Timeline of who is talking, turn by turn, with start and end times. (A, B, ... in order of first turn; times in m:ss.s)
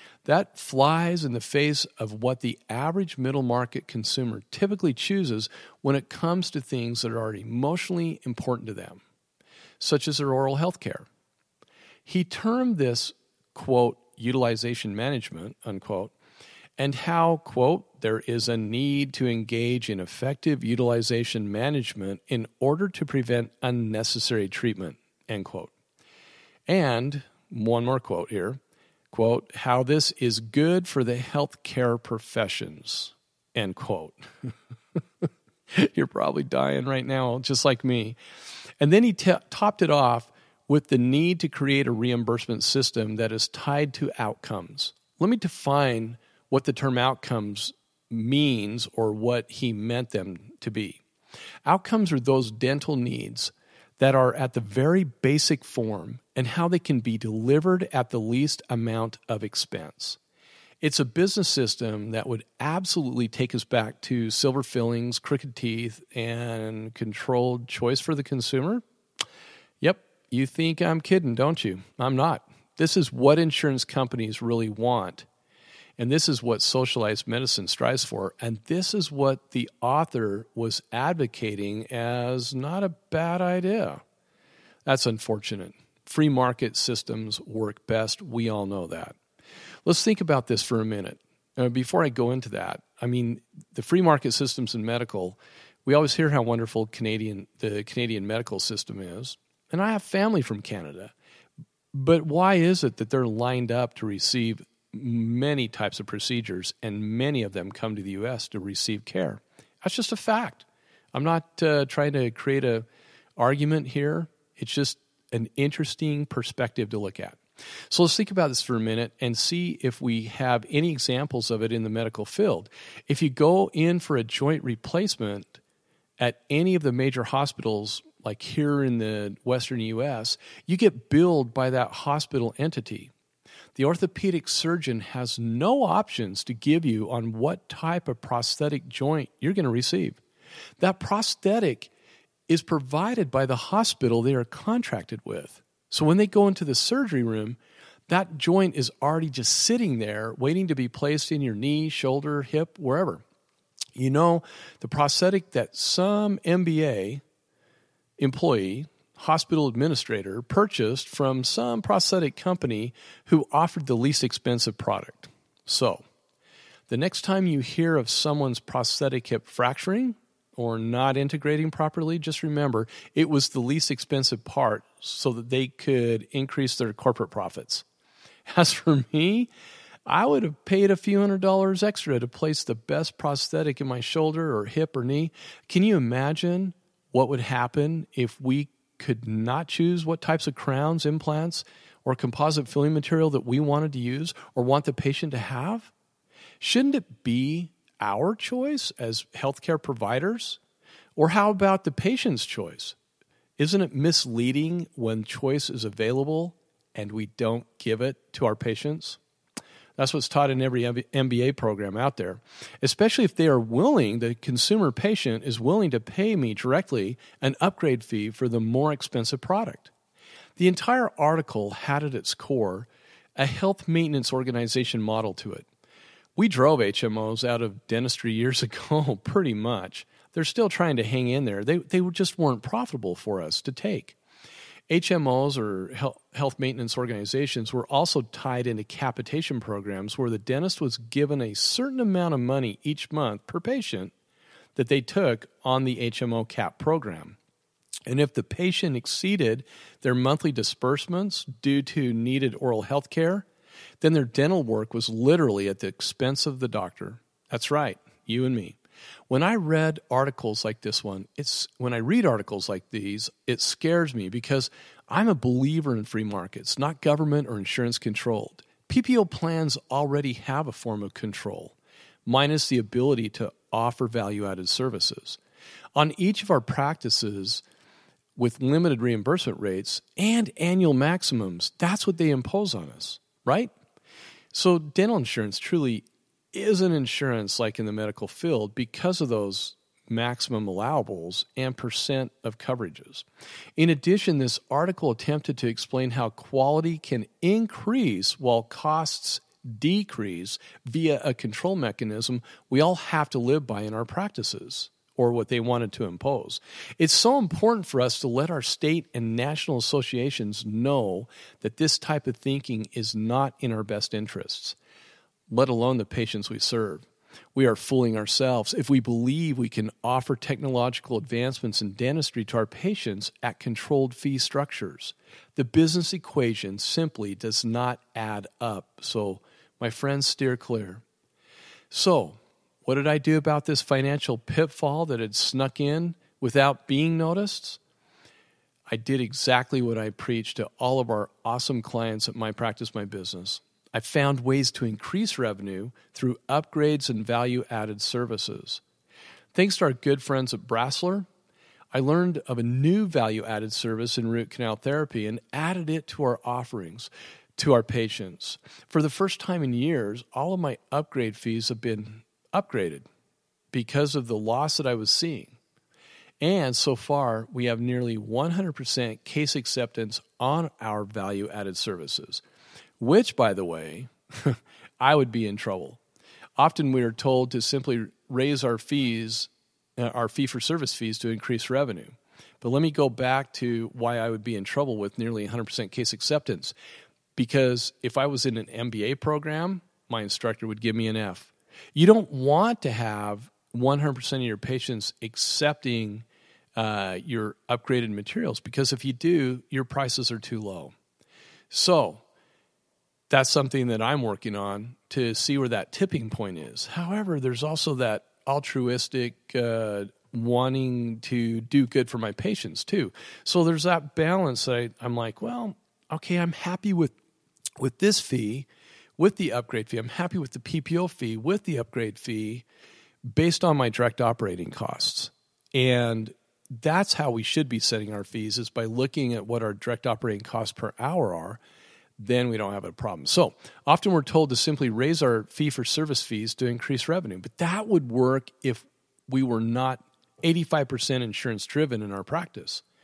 0:00.2-0:09.0 A
0:09.8-0:11.1 A
0:12.1-0:16.1 A
0:16.8-0:25.7 A
0:26.7-0:28.6 A
0:29.1-0:34.5 A
0:35.7-0:38.2 A
0:38.8-0:51.0 A
0:51.7-1:00.2 A
1:00.8-1:08.8 A
1:09.8-1:15.3 A
1:16.0-1:24.0 A
1:24.9-1:29.2 A
1:29.8-1:41.1 A
1:41.9-1:52.9 A
1:53.4-2:05.6 A
2:06.2-2:13.1 A
2:13.8-2:20.2 A
2:20.8-2:21.9 A
2:22.5-2:33.2 A
2:34.0-2:37.2 A
2:38.2-2:46.0 A
2:46.9-2:57.8 A
2:58.4-2:59.5 A
3:00.1-3:15.9 A
3:16.6-3:20.6 A
3:21.2-3:23.0 A
3:23.6-3:29.2 A
3:30.0-3:39.9 A
3:40.6-3:45.7 A
3:46.4-3:54.2 A
3:54.9-4:04.1 A
4:04.8-4:07.4 A
4:08.1-4:13.5 A
4:14.0-4:18.8 A
4:19.3-4:35.4 A
4:36.0-4:37.6 A
4:38.4-4:43.7 A
4:44.5-4:53.3 A
4:53.8-5:14.8 A
5:15.5-5:31.0 A
5:31.9-5:37.8 A
5:38.9-5:48.8 A
5:49.5-5:51.3 A
5:51.9-6:03.1 A
6:03.7-6:05.6 A
6:06.4-6:12.4 A
6:13.0-6:16.0 A
6:16.6-6:26.8 A
6:27.4-6:40.9 A
6:41.7-6:42.2 A
6:43.3-6:57.2 A
6:57.8-7:02.7 A
7:03.3-7:11.6 A
7:12.2-7:22.8 A